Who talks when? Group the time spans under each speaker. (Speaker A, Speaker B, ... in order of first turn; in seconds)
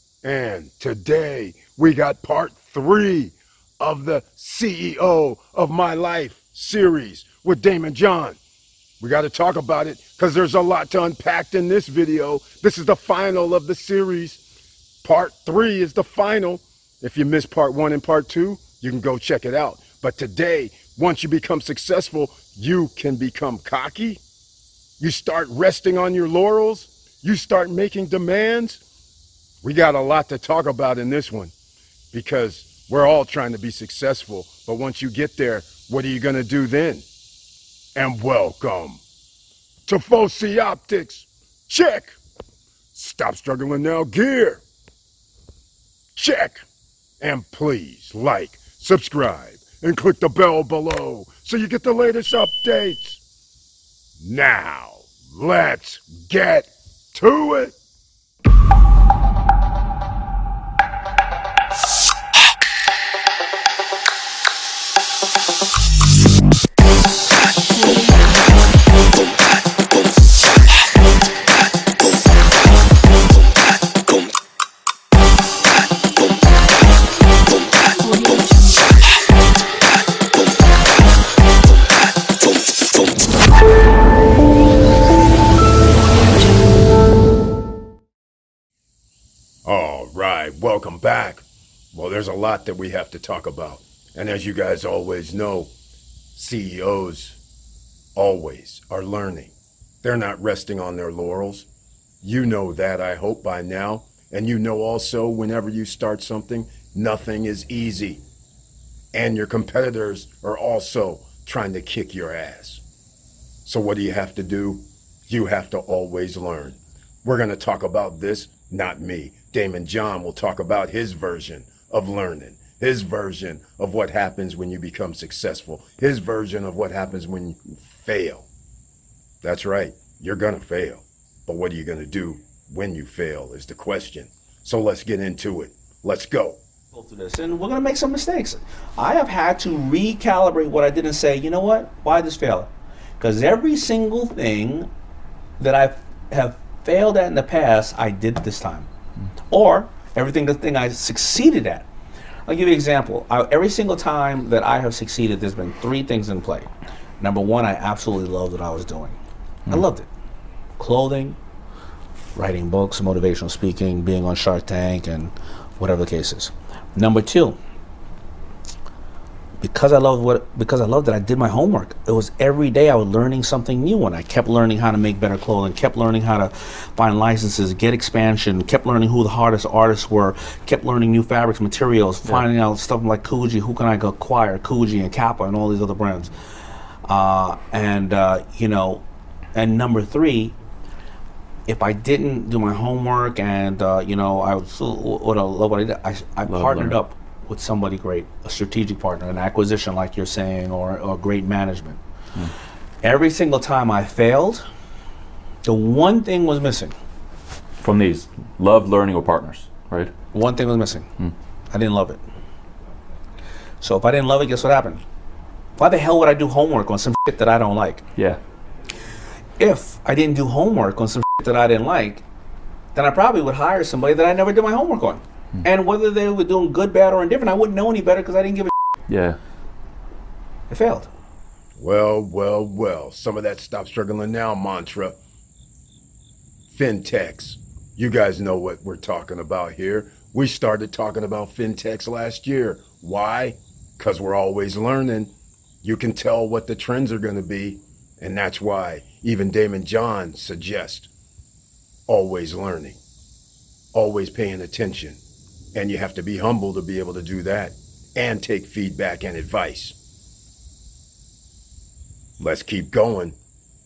Speaker A: 0.2-8.4, 9.0-14.4, 15.0-24.2, 25.0-28.8, 29.6-31.5, 32.1-37.0, 37.9-39.0, 39.9-42.1, 42.9-44.6, 46.1-46.6, 47.2-53.2, 54.2-57.8, 67.7-68.5, 78.0-78.8, 89.6-95.7, 96.3-97.4, 98.1-101.7, 102.2-108.2, 109.1-112.8, 113.6-128.5, 129.4-136.6, 231.8-235.2, 236.7-251.1, 252.1-253.0, 253.9-255.2, 255.7-259.9, 262.4-263.4
Speaker B: 136.9-144.9, 145.6-148.9, 149.5-151.9, 152.4-159.2, 159.7-160.1, 160.8-161.4, 162.3-167.6, 169.6-186.3, 187.1-189.0, 189.5-190.5, 191.7-202.0, 203.0-204.6, 205.6-206.9, 210.3-211.1, 211.7-212.2, 213.8-215.0, 215.8-218.0, 219.6-222.2, 222.9-225.2, 225.8-228.7, 230.7-231.0
Speaker C: 182.2-182.5, 196.4-197.0, 207.8-210.1, 229.1-229.4